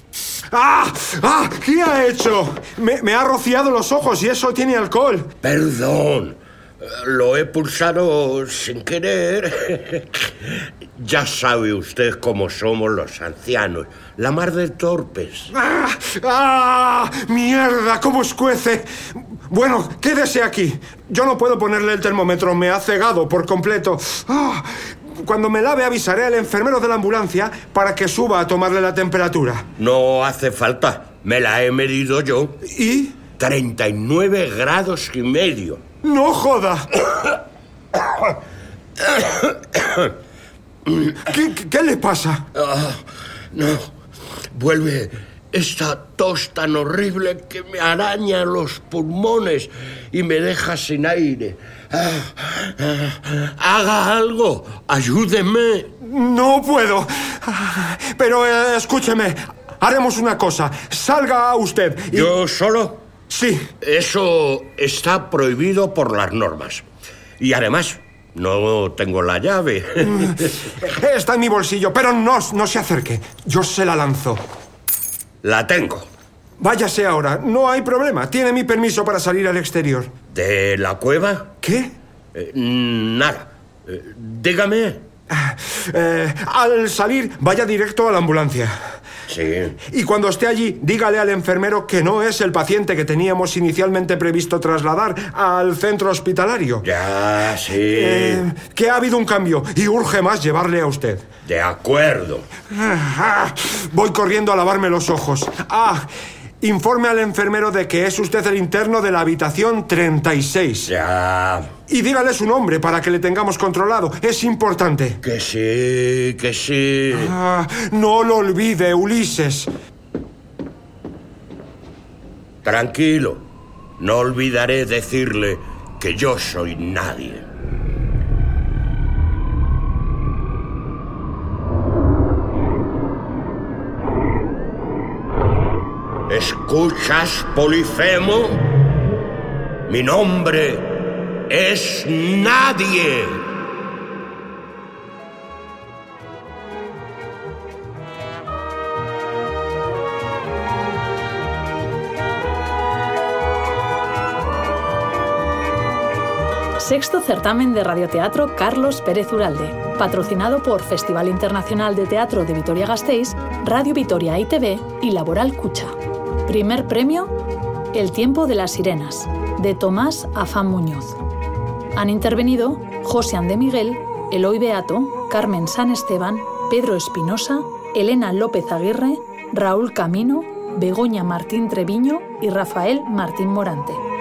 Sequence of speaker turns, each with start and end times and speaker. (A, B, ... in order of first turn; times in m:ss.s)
0:00.5-0:05.3 A
0:05.4-0:15.5 B
0:15.5-0:29.7 A
0:29.8-0:32.6 B
0:32.6-0:33.2 A
0:33.4-0:35.8 B
0:36.0-0:37.0 A
0:39.0-0:40.1 B
0:41.2-0:42.5 A
0:42.5-0:43.9 B
0:44.5-0:55.9 B
0:56.0-1:02.3 A
1:02.1-1:03.0 B
1:03.3-1:03.7 A
1:03.8-1:06.8 B
1:07.4-1:10.6 B
1:10.0-1:14.4 A
1:15.4-1:16.1 B
1:16.6-1:20.1 A
1:20.3-1:21.5 B
1:21.6-1:21.9 A
1:22.3-1:25.0 B
1:25.3-1:28.7 A
1:29.3-1:29.8 B
1:29.8-1:36.8 A
1:36.8-1:38.4 B
1:37.8-1:41.3 A
1:41.4-1:42.4 B
1:42.7-1:46.1 A
1:46.6-1:50.9 A
1:50.9-1:51.7 B
1:51.9-1:55.2 A
1:55.2-1:57.3 B
1:57.1-1:59.7 A
2:02.6-2:03.4 B
2:04.0-2:07.5 B
2:16.3-2:18.6 B
2:19.9-2:20.9 B
2:21.5-2:23.4 B
2:36.8-2:47.3 C
2:47.9-2:51.2 C
2:51.9-3:04.0 C